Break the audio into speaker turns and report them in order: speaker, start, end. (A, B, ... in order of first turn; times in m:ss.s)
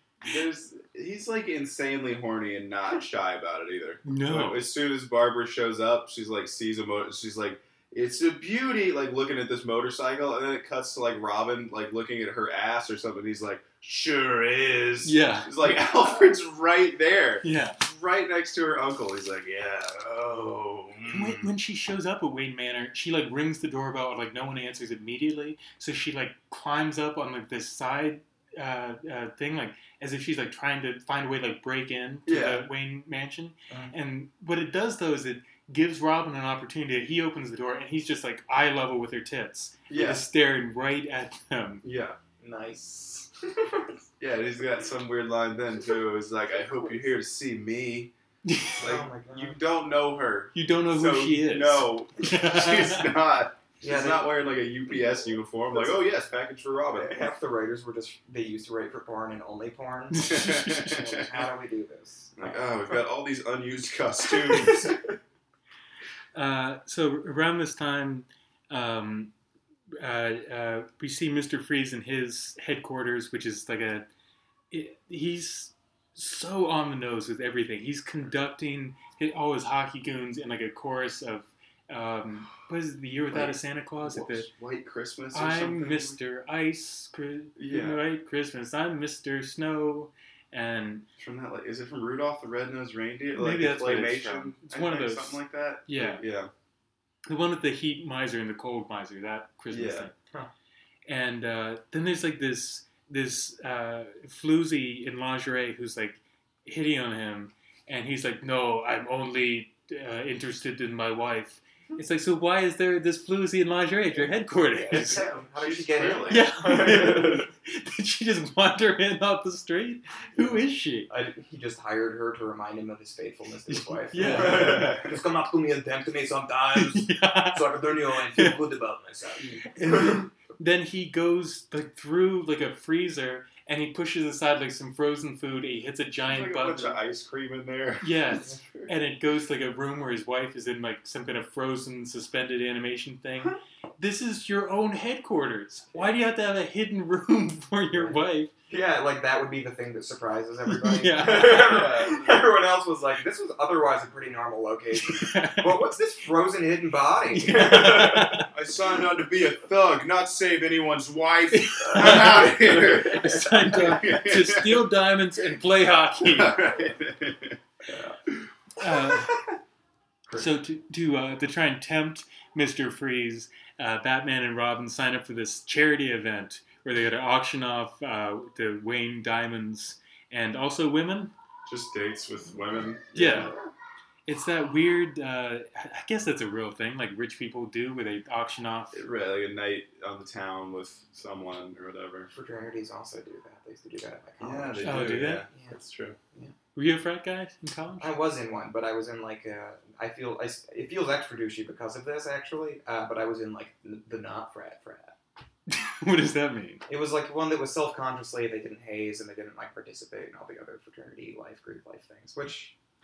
0:00.2-0:21.5 A
0:04.0-0:04.6 B
0:15.0-0:15.7 B
0:17.4-0:17.8 B
0:21.1-0:41.8 B
0:32.3-0:32.6 A
0:33.7-0:34.0 C
0:39.9-0:40.2 A
0:41.8-0:42.2 A
0:42.4-0:43.9 C
0:44.2-0:48.1 A
0:48.5-0:48.8 B
0:48.8-0:49.6 C
0:48.8-0:57.2 A
0:50.5-0:53.1 B
0:53.8-0:54.3 C
0:56.9-1:02.7 C
1:00.1-1:01.2 B
1:00.2-1:01.4 A
1:02.4-1:05.0 A
1:04.3-1:05.0 C
1:06.3-1:09.3 B
1:10.0-1:14.1 B
1:14.7-1:24.5 B
1:23.3-1:26.2 A
1:25.3-1:31.1 B
1:27.6-1:28.0 A
1:31.2-1:36.5 A
1:33.4-1:36.2 B
1:37.3-1:40.1 B
1:39.7-1:40.1 A
1:41.1-1:55.2 B
1:54.2-1:57.5 C
1:55.0-1:56.5 A
1:56.3-2:01.1 B
2:01.1-2:10.2 C
2:03.7-2:05.0 B
2:04.2-2:05.1 A
2:06.7-2:08.6 B
2:09.7-2:17.0 B
2:16.3-2:18.9 A
2:18.0-2:28.5 B
2:28.7-2:38.4 C
2:30.7-2:32.1 B
2:31.4-2:32.6 A
2:34.9-2:35.8 B
2:37.3-2:38.5 B
2:38.4-2:44.9 A
2:41.5-2:46.6 B
2:41.9-2:43.9 C
2:46.2-2:47.6 A
2:47.9-2:48.2 C
2:48.8-2:49.4 B
2:50.4-3:01.3 B
3:01.7-3:03.5 A
3:03.2-3:03.5 B
3:04.3-3:09.0 B
3:08.9-3:12.3 A
3:12.3-3:15.8 C
3:14.4-3:16.2 A
3:14.8-3:15.5 B
3:16.8-3:18.1 B
3:18.0-3:25.2 C
3:25.7-3:26.8 B
3:26.9-3:32.7 C